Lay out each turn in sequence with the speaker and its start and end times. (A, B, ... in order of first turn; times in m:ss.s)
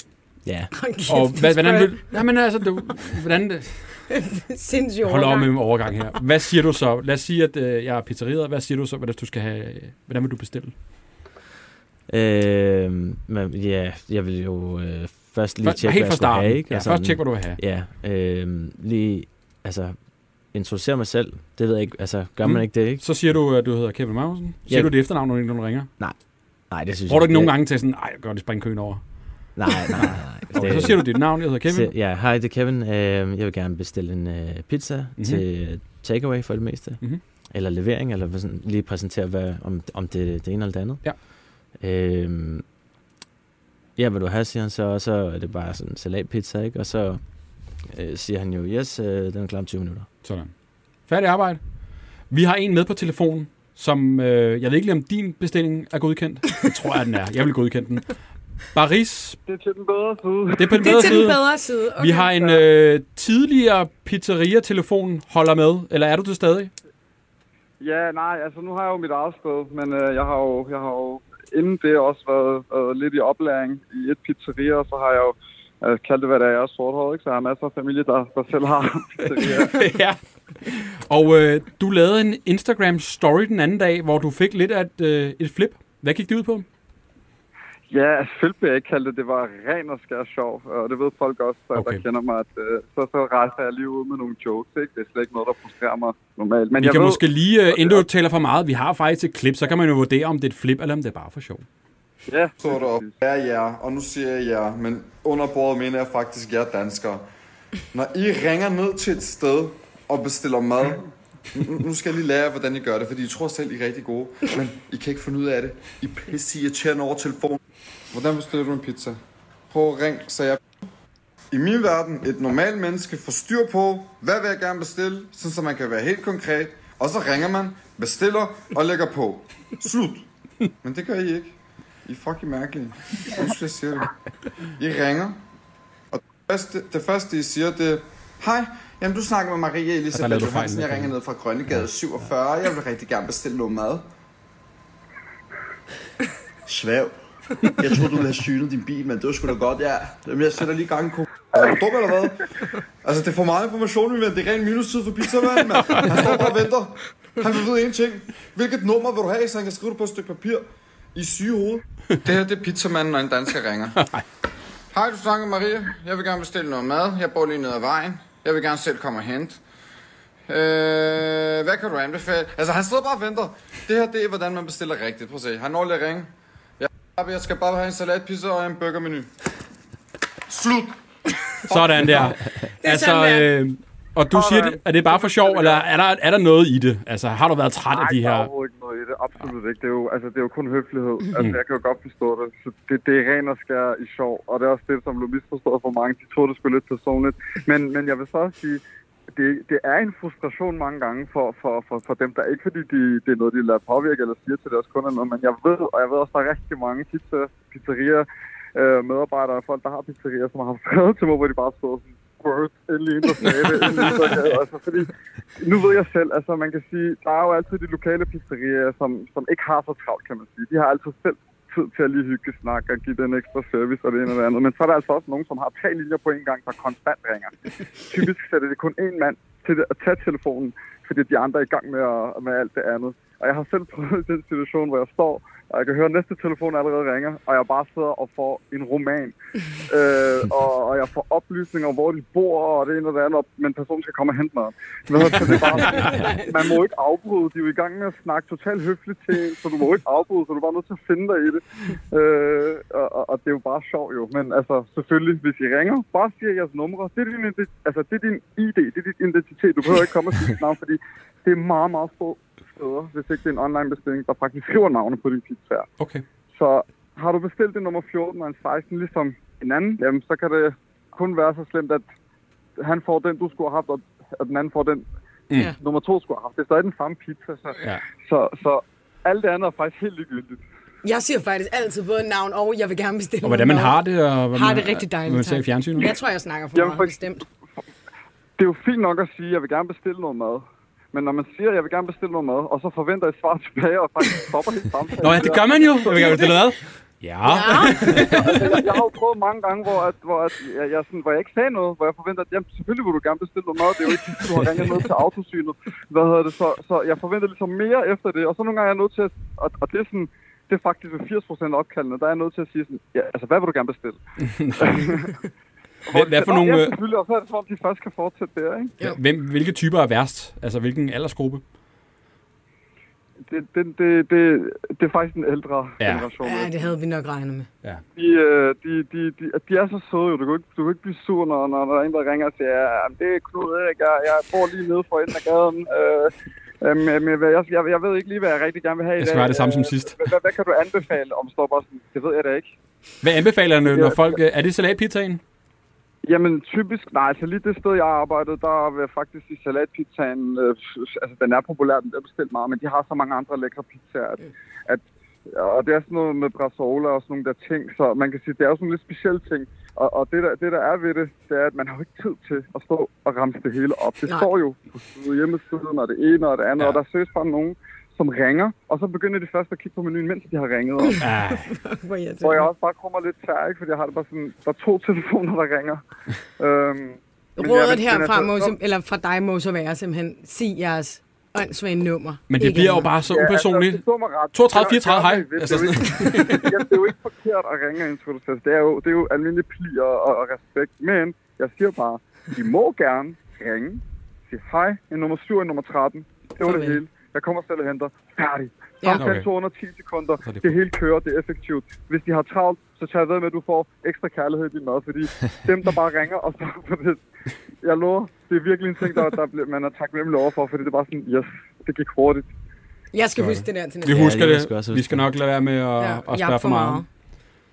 0:00.4-0:00.7 A
0:00.8-0:02.2 B
0:01.1-0:04.1 C
0:04.1-0:05.9 B
0:05.0-0:10.7 C
0:12.1-0:20.0 A
0:15.6-0:17.6 C
0:20.5-0:23.0 A
0:22.4-0:25.9 C
0:24.7-0:25.0 A
0:26.7-0:27.5 A
0:27.1-0:29.0 C
0:29.6-0:41.1 A
0:29.9-0:31.9 C
0:41.7-0:42.6 A
0:44.0-0:47.2 A
0:47.8-0:50.1 A
0:50.2-0:50.5 C
0:51.1-0:51.6 C
0:52.3-0:58.2 C
0:58.7-0:59.4 C
0:59.4-1:01.0 D
1:00.6-1:06.7 C
1:00.8-1:02.3 B
1:07.8-1:19.8 D
1:19.4-1:26.6 C
1:27.9-1:38.0 D
1:31.7-1:32.0 C
1:36.8-1:41.6 C
1:42.3-1:43.2 D
1:42.6-1:47.2 E
1:47.9-1:57.6 E
1:58.1-1:59.2 E
1:59.7-2:00.6 E
2:01.5-2:10.2 E
2:10.8-2:11.5 E
2:12.0-2:14.1 E
2:14.8-2:15.4 E
2:16.1-2:24.0 E
2:20.1-2:21.1 C
2:26.6-2:27.1 F
2:27.7-2:31.2 F
2:31.5-2:32.4 E
2:33.0-2:40.6 E
2:41.1-2:44.0 E
2:44.9-2:49.6 E
2:50.5-2:59.3 E
3:00.5-3:01.0 E
3:01.7-3:02.3 E
3:01.7-3:08.5 C
3:02.8-3:03.5 B
3:04.3-3:05.9 D
3:07.9-3:18.8 D
3:19.3-3:59.3 D
3:59.8-4:25.9 D
4:06.0-4:06.4 B
4:26.0-4:26.2 C
4:26.5-4:32.0 D
4:32.8-4:35.0 D
4:35.8-4:40.6 D
4:41.0-4:44.0 B
4:43.4-4:46.1 C
4:44.5-4:47.4 B
4:46.7-4:47.1 D
4:48.6-4:56.7 D
4:55.2-4:58.4 C
4:57.5-4:58.6 B
4:58.1-5:14.2 D
5:14.4-5:15.1 C
5:14.8-5:15.4 D
5:16.1-5:18.9 D
5:16.1-5:16.9 C
5:19.0-5:21.6 C
5:23.5-5:26.7 D
5:26.0-5:26.3 C
5:26.4-5:27.7 B
5:28.2-5:42.7 D
5:39.2-5:40.2 C
5:43.2-5:45.4 C
5:43.9-5:44.4 D
5:46.2-6:11.3 D
6:11.1-6:12.7 B
6:11.2-6:11.7 C
6:12.4-6:16.0 D
6:16.6-6:18.7 D
6:17.6-6:23.1 B
6:22.5-6:26.7 C
6:23.2-6:47.2 D
6:36.6-6:37.0 B
6:39.0-6:39.2 B
6:39.2-6:39.5 C
6:47.8-6:52.5 D
6:53.1-6:54.3 B
6:53.4-6:57.0 C
6:54.0-6:55.2 A
6:56.0-6:57.0 B